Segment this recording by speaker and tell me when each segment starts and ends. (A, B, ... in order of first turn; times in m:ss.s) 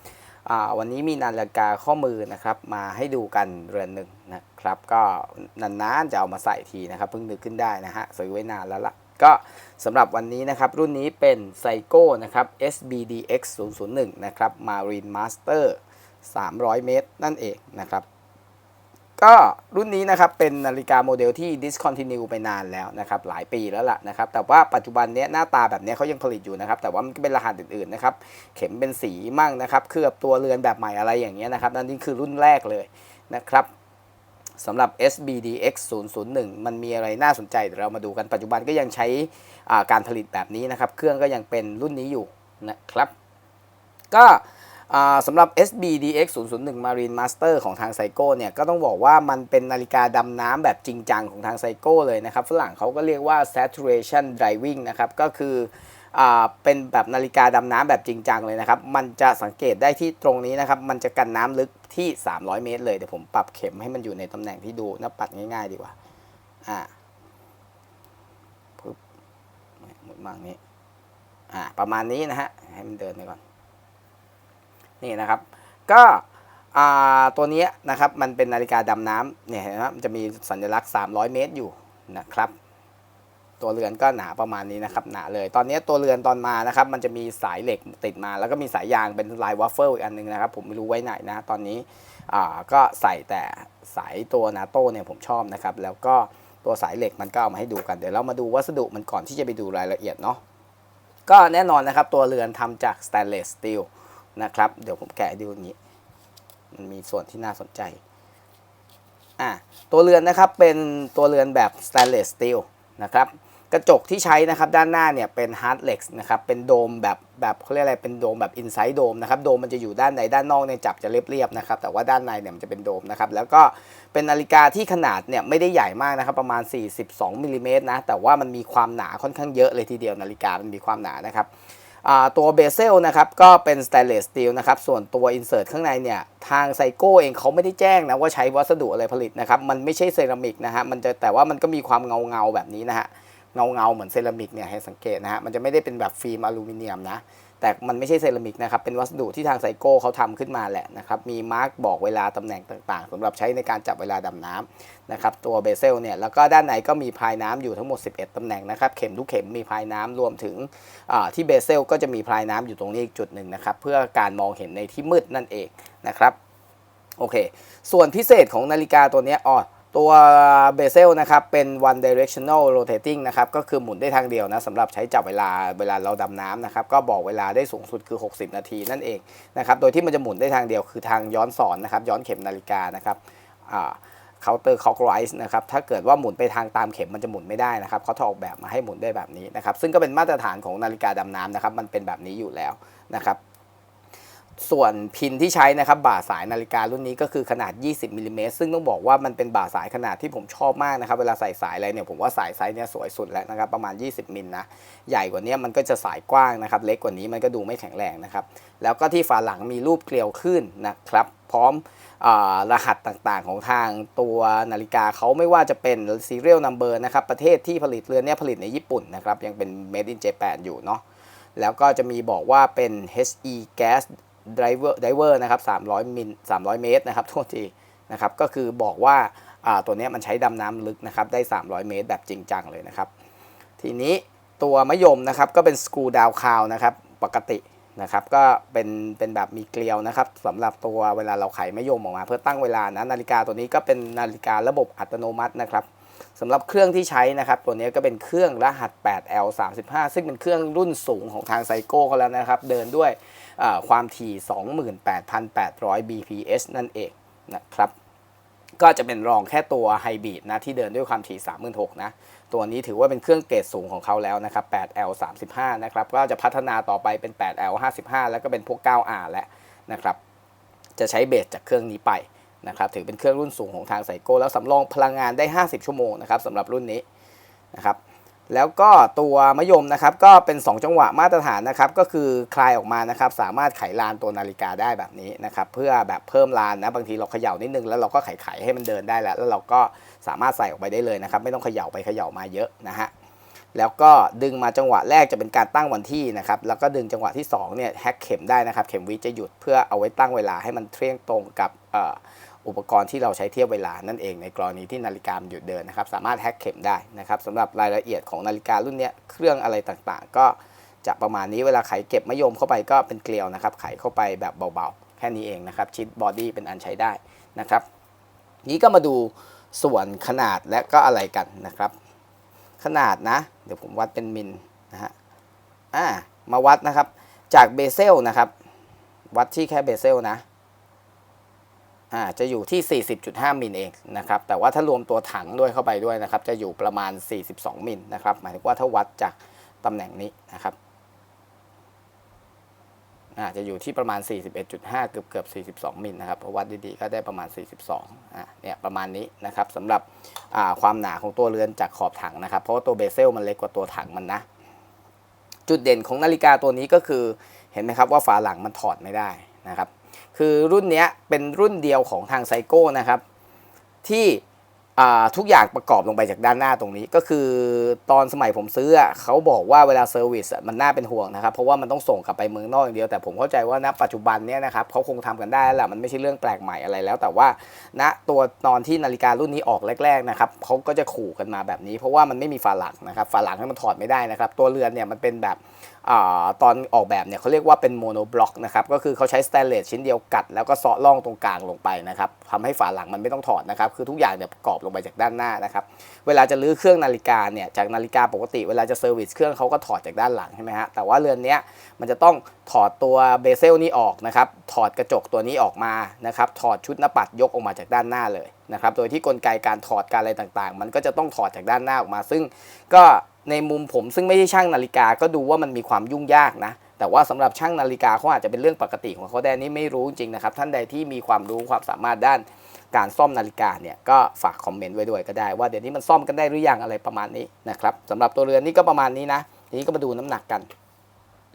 0:00.5-0:18.0 A
0:19.2-0:33.7 A
0:34.6-0:43.1 A
0:44.1-1:06.0 A
1:09.8-1:10.6 A
1:11.5-1:13.4 A
1:15.0-1:22.5 A
1:23.6-1:40.4 A
1:41.3-1:45.8 A
1:46.7-1:48.0 A
1:49.4-2:11.5 A
2:12.0-2:46.4 A
2:47.2-3:13.4 A
3:14.6-3:41.0 A
3:41.6-3:53.1 A
3:53.8-4:05.9 A
4:06.4-4:17.9 A
4:18.8-4:30.2 A
4:31.0-4:37.0 A
4:38.5-4:53.1 A
4:53.8-5:17.8 A
5:18.6-5:21.9 A
5:22.8-5:25.1 A
5:25.9-5:28.5 A
5:29.3-5:30.4 A
5:32.1-5:40.8 A
5:43.4-5:54.4 A
5:55.7-6:03.2 A
6:04.0-6:04.4 A
6:05.0-7:10.7 A